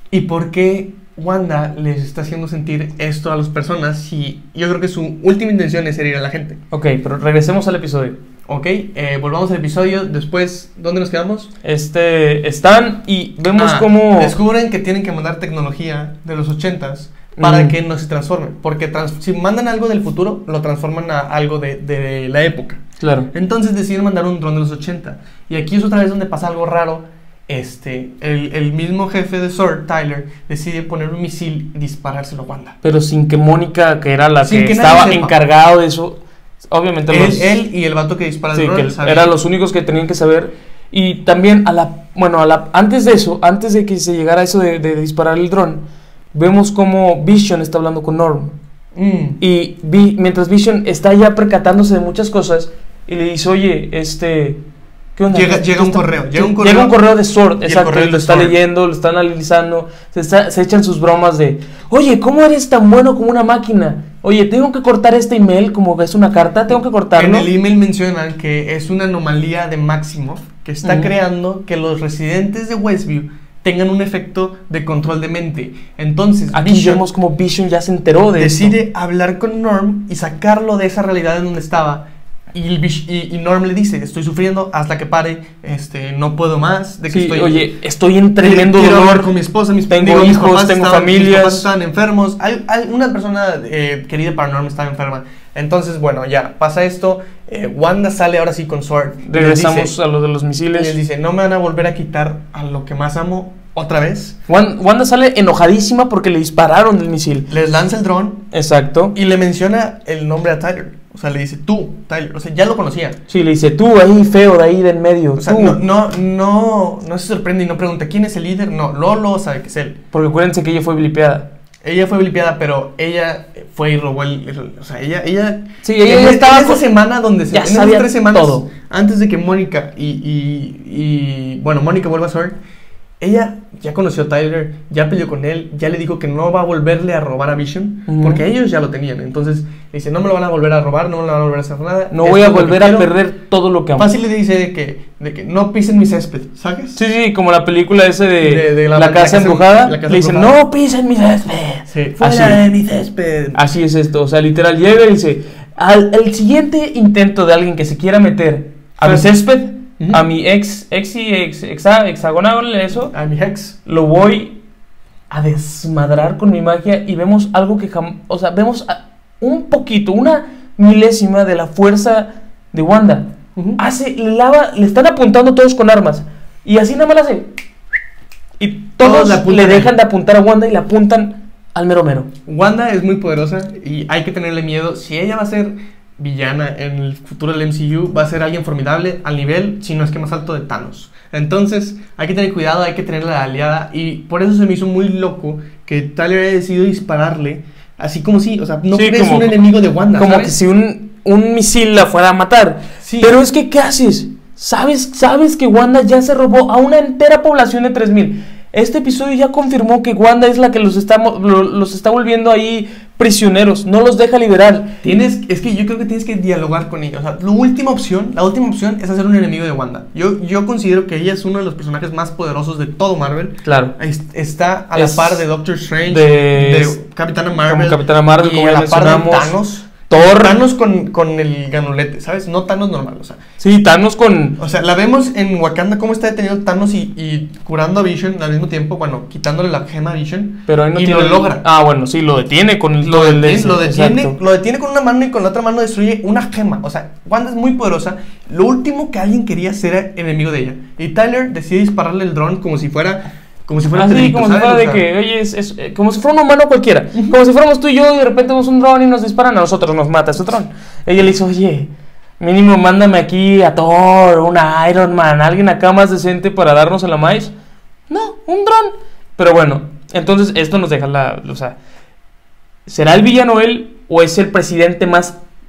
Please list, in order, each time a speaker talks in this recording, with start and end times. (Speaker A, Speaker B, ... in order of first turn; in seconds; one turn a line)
Speaker A: 0.1-6.6
Speaker B: 6.7-8.2
Speaker A: 8.5-11.5
Speaker B: 11.6-14.4
Speaker A: 13.5-32.8
Speaker B: 17.4-17.8
Speaker B: 23.0-23.3
Speaker B: 32.8-37.5
Speaker A: 34.4-35.4
Speaker A: 37.1-39.3
Speaker B: 38.5-45.8
Speaker B: 46.3-48.5
Speaker A: 49.0-49.4
Speaker B: 49.4-54.6
Speaker B: 55.2-67.5
Speaker A: 55.3-57.0
Speaker A: 57.6-58.5
Speaker A: 67.2-77.0
Speaker B: 70.8-71.1
Speaker B: 76.5-78.8
Speaker A: 78.4-87.7
Speaker B: 87.1-89.3
Speaker A: 88.4-100.0
Speaker B: 89.9-91.7
Speaker B: 99.3-101.0
Speaker A: 100.7-104.4
Speaker B: 104.5-107.5
Speaker A: 107.5-108.5
Speaker B: 108.5-109.2
Speaker A: 109.1-113.2
Speaker B: 113.3-115.8
Speaker A: 115.4-120.0
Speaker B: 120.1-121.5
Speaker A: 121.8-132.6
Speaker B: 125.8-126.9
Speaker B: 127.5-128.7
Speaker A: 133.2-143.1
Speaker B: 138.1-138.4
Speaker B: 142.1-144.1
Speaker A: 144.0-147.0
Speaker B: 147.0-152.6
Speaker A: 148.4-150.6
Speaker A: 151.9-153.6
Speaker B: 153.5-163.1
Speaker A: 159.0-159.3
Speaker A: 163.1-163.8
Speaker B: 163.8-164.6
Speaker B: 165.3-177.5
Speaker B: 178.6-182.3
Speaker A: 179.0-179.9
Speaker A: 182.5-200.6
Speaker B: 198.9-199.6
Speaker B: 200.2-215.0
Speaker A: 203.0-203.4
Speaker A: 215.0-233.4
Speaker B: 223.7-223.9
Speaker B: 224.9-225.4
Speaker B: 226.1-227.0
Speaker B: 227.6-230.6
Speaker B: 233.6-234.6
Speaker A: 234.6-241.7
Speaker B: 240.7-244.4
Speaker A: 243.0-255.1
Speaker B: 253.9-267.5
Speaker B: 268.1-271.8
Speaker B: 272.9-275.4